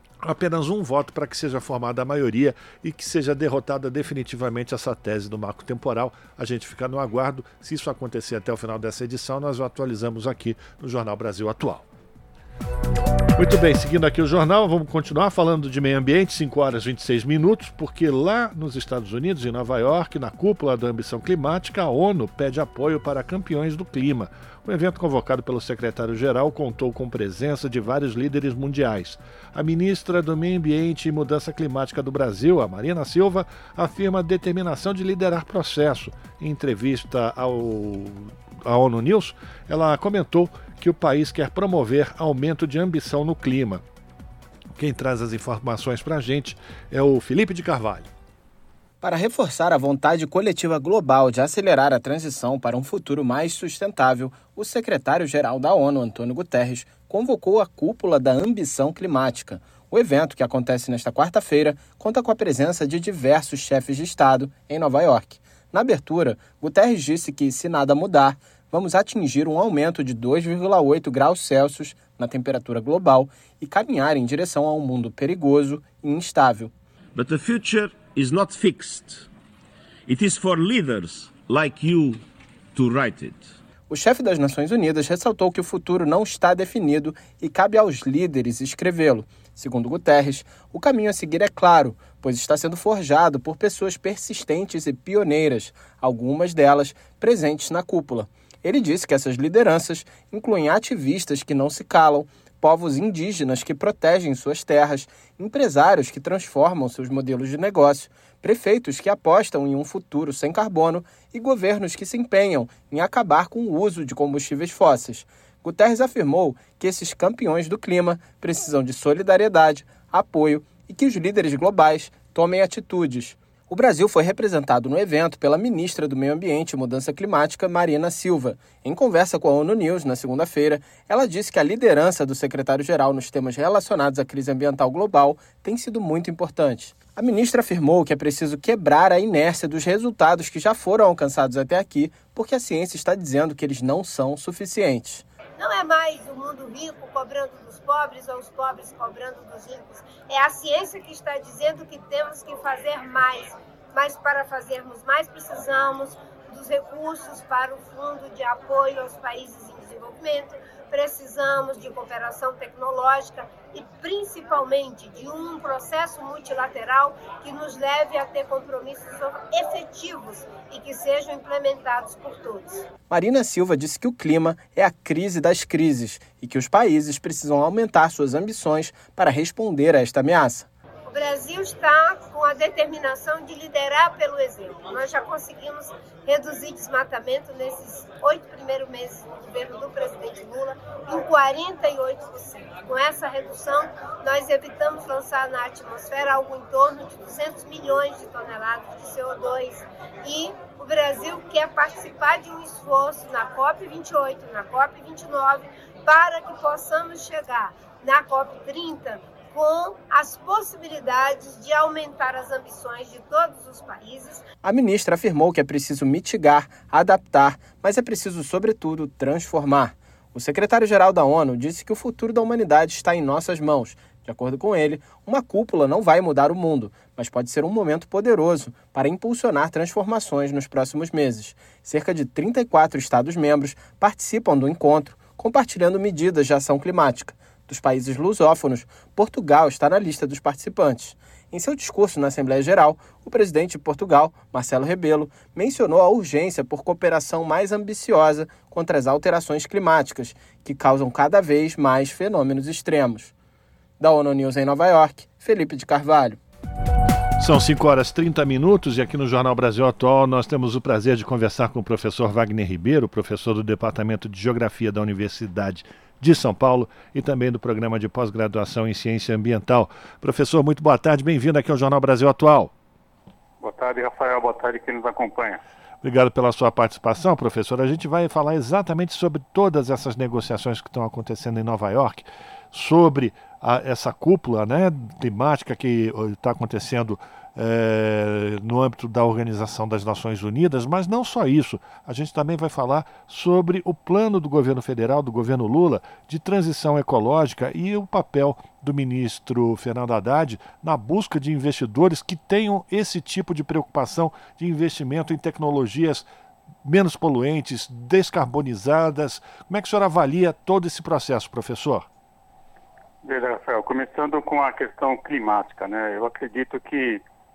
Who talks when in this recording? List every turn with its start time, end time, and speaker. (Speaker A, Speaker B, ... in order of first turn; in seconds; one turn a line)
Speaker A: 0.2-11.9
Speaker A: 13.4-43.8
Speaker A: 44.8-48.1
Speaker B: 49.0-76.7
Speaker C: 77.2-79.3
Speaker C: 80.1-83.6
Speaker B: 83.9-145.2
Speaker D: 145.6-172.9
Speaker B: 173.1-180.7
Speaker D: 181.1-214.4
Speaker B: 214.6-253.3
Speaker B: 254.0-256.4
Speaker A: 257.4-272.7
Speaker E: 273.6-275.6
Speaker A: 276.0-306.3
Speaker A: 306.8-312.1
Speaker E: 313.2-317.2